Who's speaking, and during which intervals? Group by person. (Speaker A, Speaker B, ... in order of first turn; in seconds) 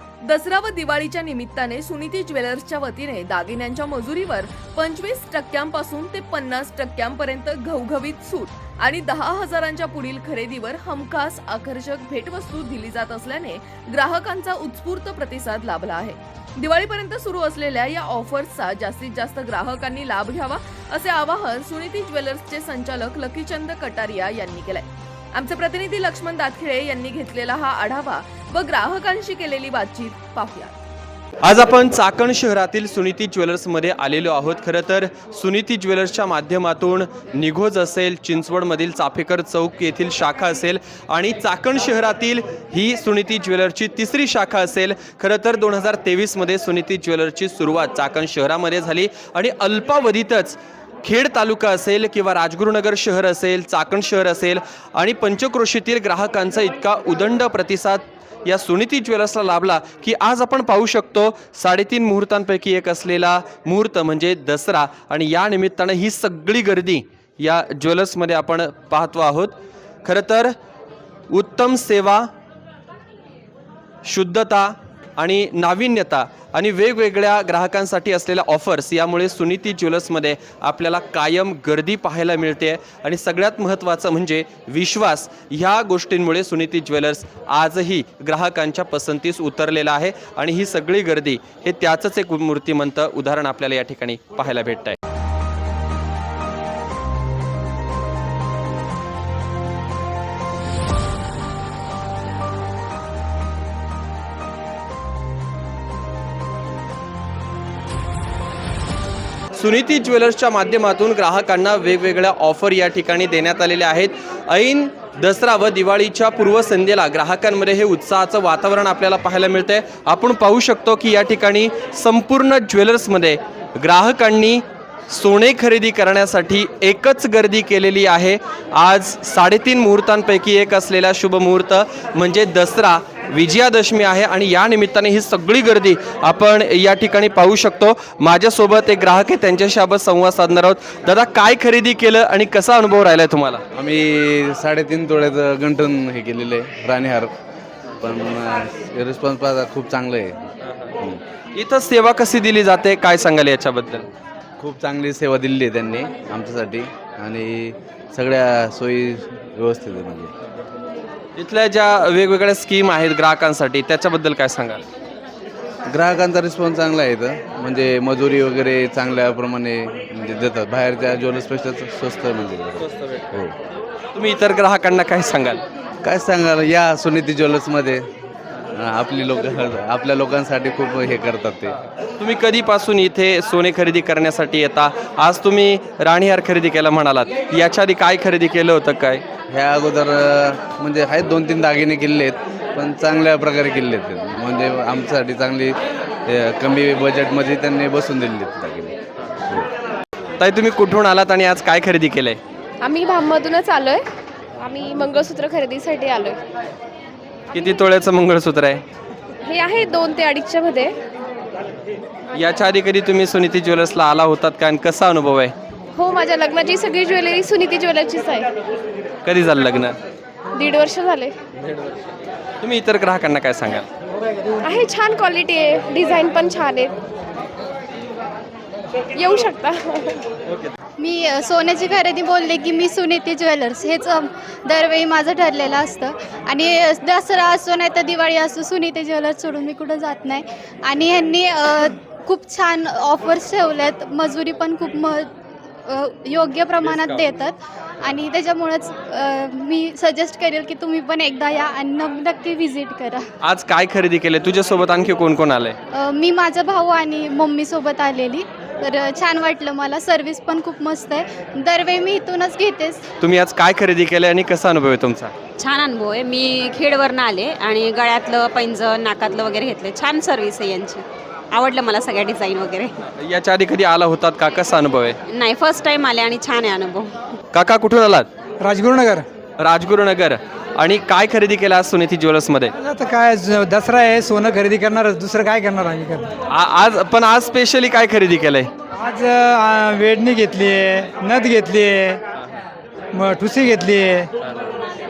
Speaker A: 0.3-30.8
Speaker B: 31.4-70.5, 71.3-72.3, 74.0-95.0, 109.6-143.6, 151.5-154.1, 161.4-164.8, 174.2-175.6, 182.2-189.2, 200.4-202.4, 207.5-208.8, 212.3-215.5, 219.2-220.0, 222.6-223.9, 246.8-247.2, 253.4-255.8, 263.2-265.3, 273.1-275.2, 277.5-278.3, 279.6-282.7, 286.5-288.7
Speaker C: 143.8-147.3, 148.0-150.5, 154.6-160.3, 165.9-173.6, 176.0-178.1, 178.7-181.8, 189.5-199.0
Speaker D: 202.8-204.0, 204.6-206.4, 209.5-210.9, 216.0-218.5, 220.6-221.3, 224.6-226.9, 229.2-230.2
Speaker E: 231.0-245.3, 245.9-253.2, 255.9-263.0
Speaker F: 265.6-272.9, 275.3-277.1
Speaker G: 278.6-279.2, 282.8-286.3, 289.0-292.2, 293.1-294.3